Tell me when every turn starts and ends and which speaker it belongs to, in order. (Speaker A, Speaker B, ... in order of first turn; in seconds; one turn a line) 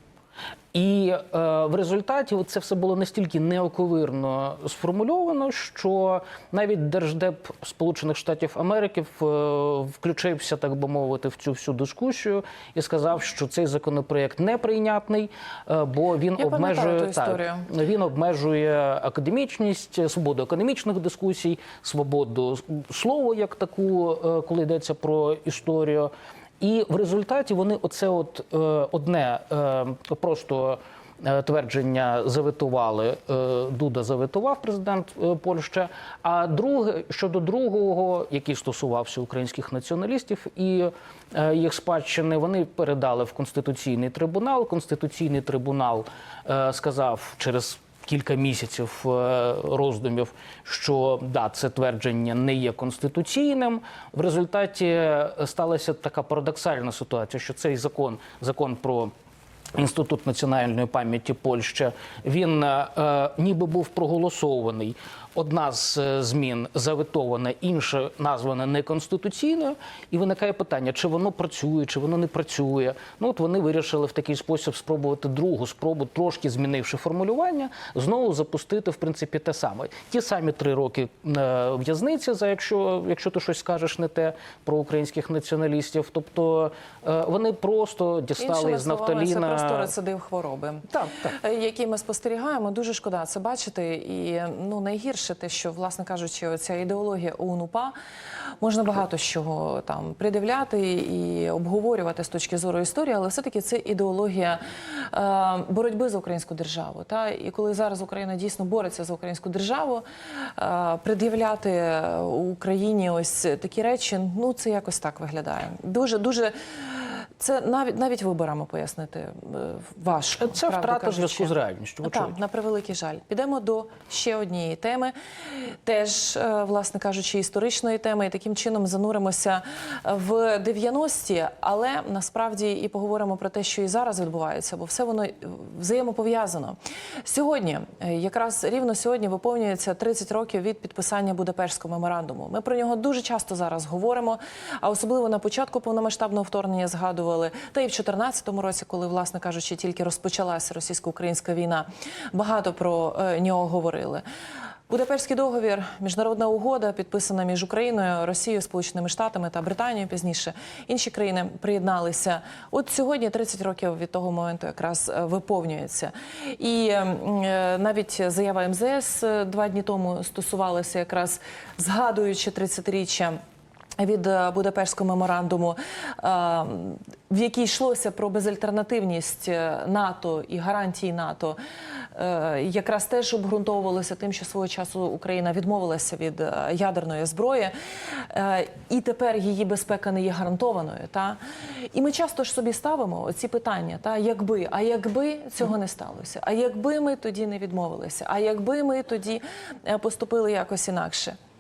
Speaker A: 0.7-59.1
Speaker B: 16.4-17.7
Speaker A: 59.7-89.9
Speaker B: 88.4-98.0
Speaker A: 90.9-91.4
Speaker B: 98.6-121.5
Speaker A: 120.4-122.4
Speaker B: 122.0-154.2
Speaker B: 154.9-173.4
Speaker B: 174.0-181.6
Speaker B: 182.1-191.4
Speaker B: 191.9-201.4